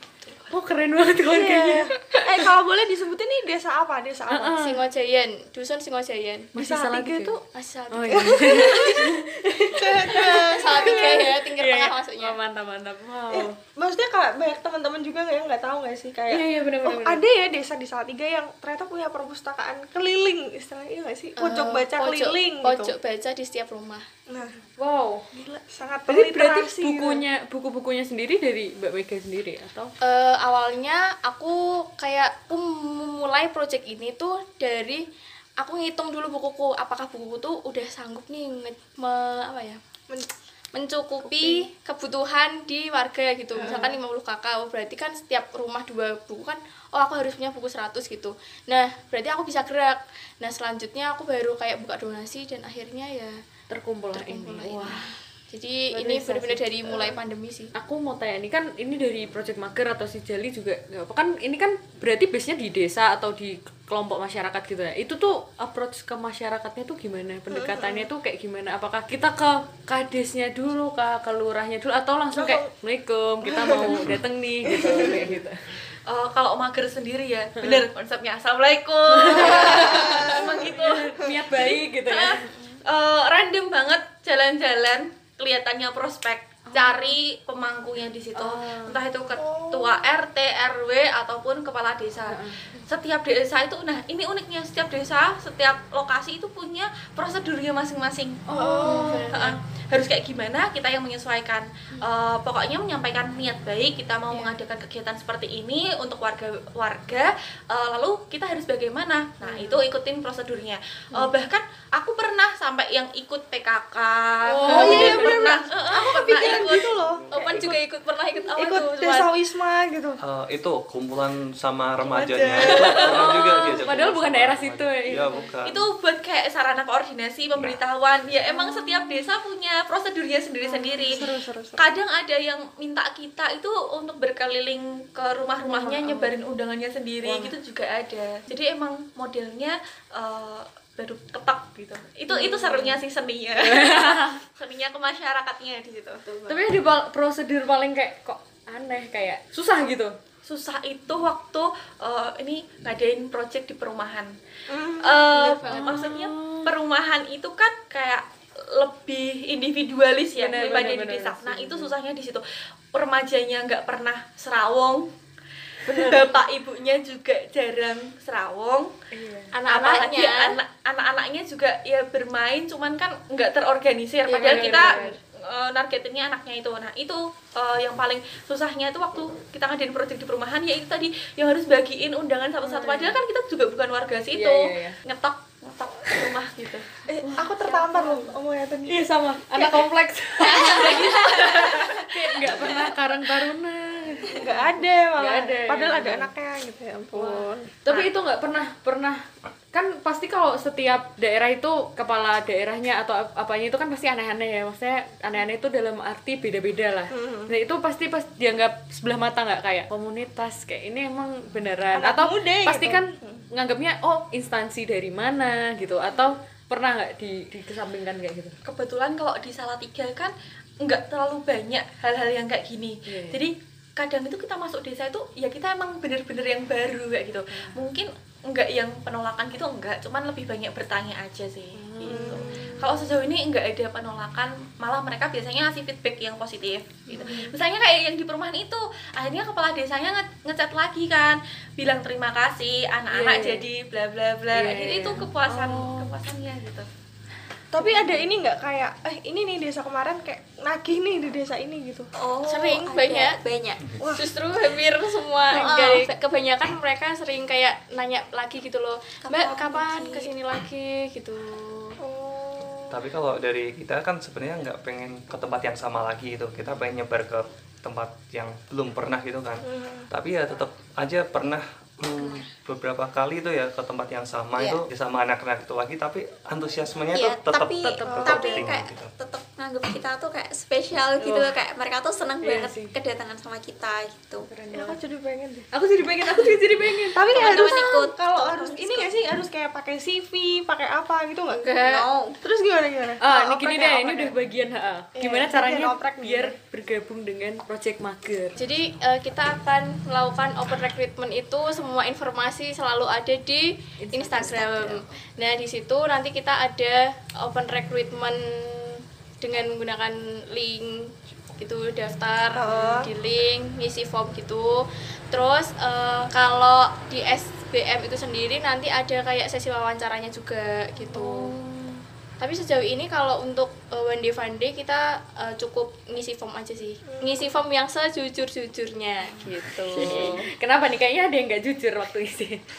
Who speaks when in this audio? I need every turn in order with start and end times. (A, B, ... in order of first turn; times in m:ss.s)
0:00.5-0:02.2 A
0:01.2-0:04.6 B
0:04.3-0:04.8 A
0:04.6-0:06.5 C
0:06.6-0:07.4 B
0:06.6-0:07.4 A
0:07.5-0:09.0 C
0:07.9-0:13.6 A
0:08.1-0:09.0 B
0:09.7-0:11.3 B
0:10.6-0:12.4 C
0:13.3-0:22.9 B
0:16.3-0:17.2 A
0:21.4-0:24.0 C
0:24.3-0:24.6 B
0:24.8-0:25.2 A
0:25.3-0:27.2 B
0:26.1-0:29.9 A
0:30.0-0:35.0 C
0:35.6-0:39.8 C
0:40.7-0:53.4 C
0:41.2-0:41.7 B
0:43.6-0:43.9 B
0:53.7-0:55.1 A
0:54.1-0:57.7 C
0:55.9-0:57.2 A
0:57.8-1:15.8 A
1:07.5-1:08.1 B
1:12.3-1:12.7 B
1:13.5-1:15.4 B
1:16.1-1:57.0 D
1:17.6-1:17.9 A
1:19.2-1:22.6 A
1:19.3-1:21.4 B
1:26.7-1:27.2 A
1:28.4-1:29.0 A
1:29.4-1:30.0 B
1:32.3-1:32.6 A
1:38.5-1:39.4 B
1:38.8-1:39.6 C
1:54.5-1:55.4 A
1:54.7-1:57.8 B
1:57.0-1:57.6 E
1:57.3-1:59.3 C
1:58.5-1:59.2 D
1:58.6-2:00.2 B
2:00.2-2:05.9 E
2:02.0-2:03.7 D
2:02.9-2:05.5 A
2:05.6-2:26.4 D
2:07.6-2:07.8 E
2:10.6-2:11.8 B
2:15.7-2:16.4 A
2:17.2-2:17.6 A
2:22.3-2:23.0 A
2:23.6-2:24.4 A
2:26.5-2:30.2 A
2:30.4-2:34.3 D
2:34.7-2:35.4 B
2:34.9-2:45.1 D
2:35.5-2:36.7 A
2:35.6-2:35.9 C
2:40.3-2:41.9 A
2:45.9-2:48.9 D
2:49.1-2:49.5 A
2:49.5-2:50.6 C
2:49.7-3:06.9 D
2:54.3-2:55.2 A
2:54.3-2:55.0 C
3:02.6-3:03.2 A
3:04.4-3:05.0 A
3:07.1-3:09.0 B
3:07.2-3:08.3 A
3:08.9-3:14.6 A
3:10.6-3:12.0 D
3:11.2-3:12.0 B
3:14.3-3:17.7 B
3:15.2-3:16.3 A
3:17.1-3:38.6 A
3:27.1-3:27.5 B
3:31.9-3:33.4 B
3:38.6-3:40.3 D
3:40.8-4:06.9 D
3:43.1-3:43.4 A
3:47.5-3:47.8 A
3:51.8-3:52.6 A
3:52.0-3:53.0 B
3:57.1-3:57.5 B
4:03.1-4:03.7 A
4:04.5-4:06.0 A
4:07.7-4:12.1 B
4:07.8-4:08.3 A
4:12.2-4:13.8 F
4:12.5-4:13.4 C
4:14.0-4:14.3 B
4:14.2-4:22.0 C
4:15.5-4:16.1 F
4:19.2-4:20.3 F
4:22.0-4:23.1 B
4:22.9-4:39.1 E
4:29.6-4:30.1 B
4:32.2-4:32.5 F
4:34.6-4:34.8 F
4:37.1-4:44.5 F
4:38.0-4:38.5 A
4:38.1-4:38.6 B
4:41.2-4:41.6 A
4:42.4-4:42.9 A
4:44.4-4:45.0 A
4:44.7-4:45.7 B
4:45.7-4:47.4 A
4:47.1-4:51.6 B
4:47.3-4:49.2 F
4:51.6-4:52.1 C
4:51.7-4:52.4 F
4:52.4-4:54.4 B
4:53.2-4:58.6 A
4:55.2-4:56.6 B
4:58.6-5:21.5 C
5:04.0-5:05.0 A
5:12.6-5:13.1 B
5:21.1-5:22.0 A
5:22.4-5:30.3 C
5:27.1-5:27.5 B
5:29.4-5:32.6 A
5:30.0-5:30.3 B